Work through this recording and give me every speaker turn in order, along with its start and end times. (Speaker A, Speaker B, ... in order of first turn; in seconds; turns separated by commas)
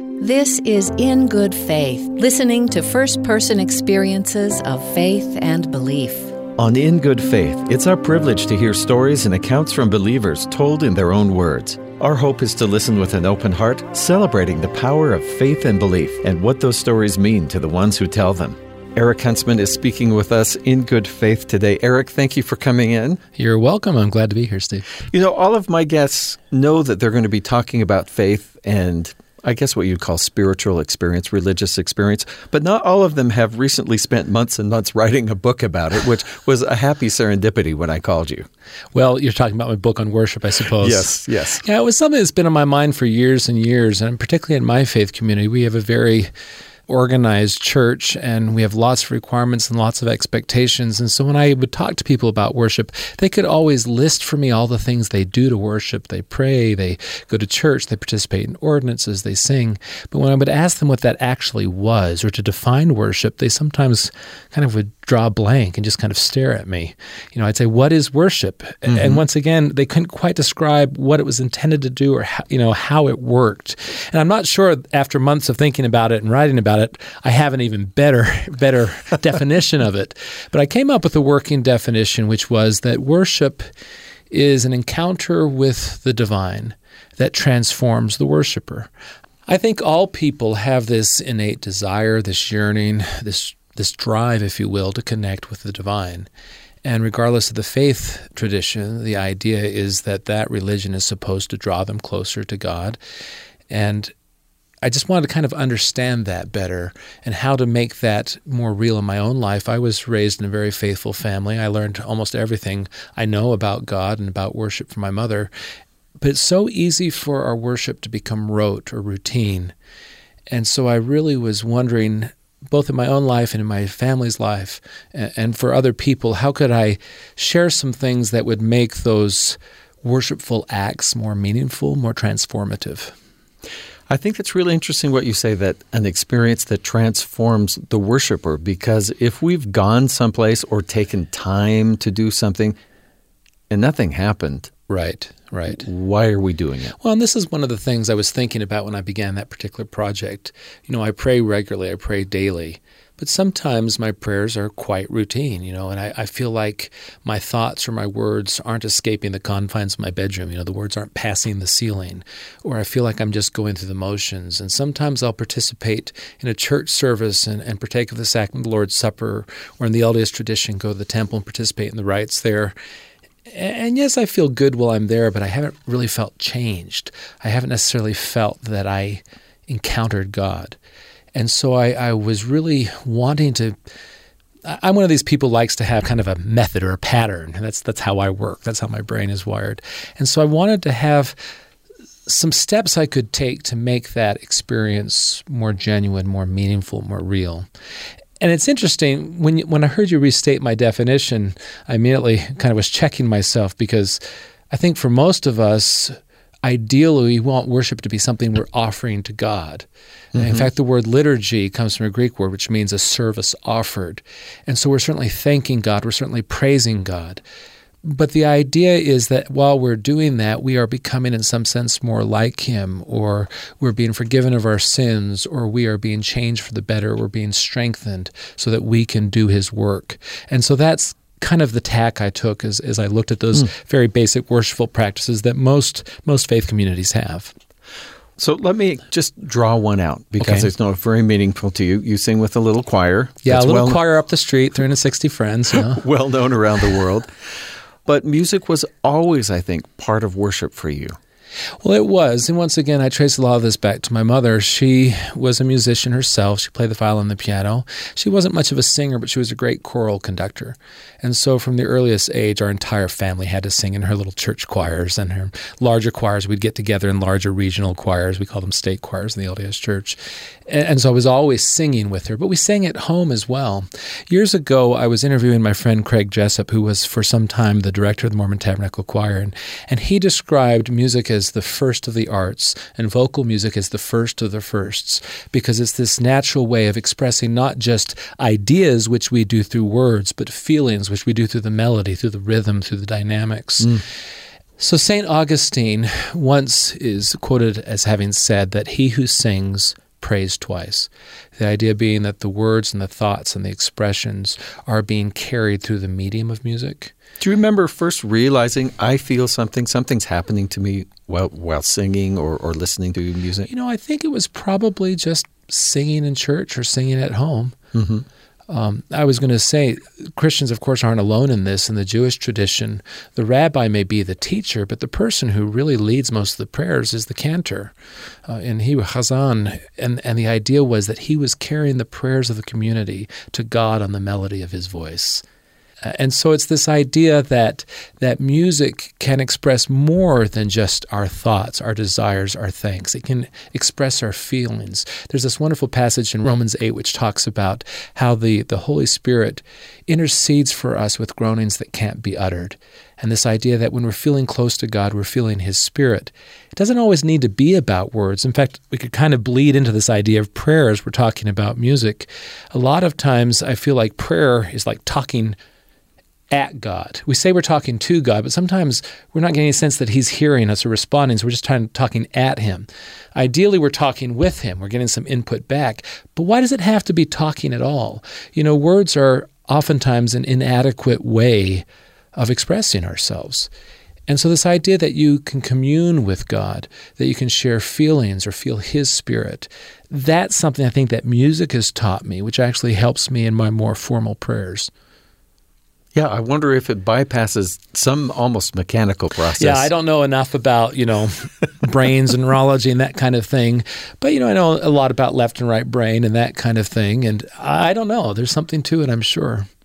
Speaker A: 0.2-6.3, Speaker B: 6.6-23.2, Speaker C: 23.4-24.9, Speaker B: 25.0-38.5, Speaker C: 38.9-46.3, Speaker B: 40.8-41.6, Speaker C: 46.9-83.7, Speaker B: 68.9-69.2, Speaker C: 84.3-88.9, Speaker C: 89.5-96.3, Speaker C: 96.8-103.0, Speaker C: 103.7-104.1, Speaker C: 104.8-115.5, Speaker C: 116.2-119.7, Speaker C: 120.5-133.1, Speaker B: 134.1-142.8, Speaker B: 143.7-144.7, Speaker C: 144.9-145.9, Speaker B: 145.7-146.9, Speaker C: 147.0-172.7, Speaker C: 173.5-180.8, Speaker C: 181.3-183.8, Speaker C: 184.6-191.4, Speaker C: 192.3-197.7, Speaker C: 198.4-209.8, Speaker B: 210.3-210.7, Speaker C: 210.4-217.4, Speaker C: 218.0-237.5, Speaker B: 238.4-244.0, Speaker C: 240.4-240.7, Speaker C: 243.4-246.0, Speaker B: 245.7-247.3, Speaker B: 248.0-251.2, Speaker C: 251.8-294.0, Speaker C: 294.8-307.1, Speaker B: 307.4-313.7, Speaker C: 313.7-317.8, Speaker B: 317.9-318.3, Speaker C: 318.7-327.9, Speaker C: 328.5-335.4, Speaker C: 336.0-365.6, Speaker C: 366.5-383.7, Speaker C: 384.3-394.9, Speaker B: 396.1-399.9, Speaker C: 399.5-409.7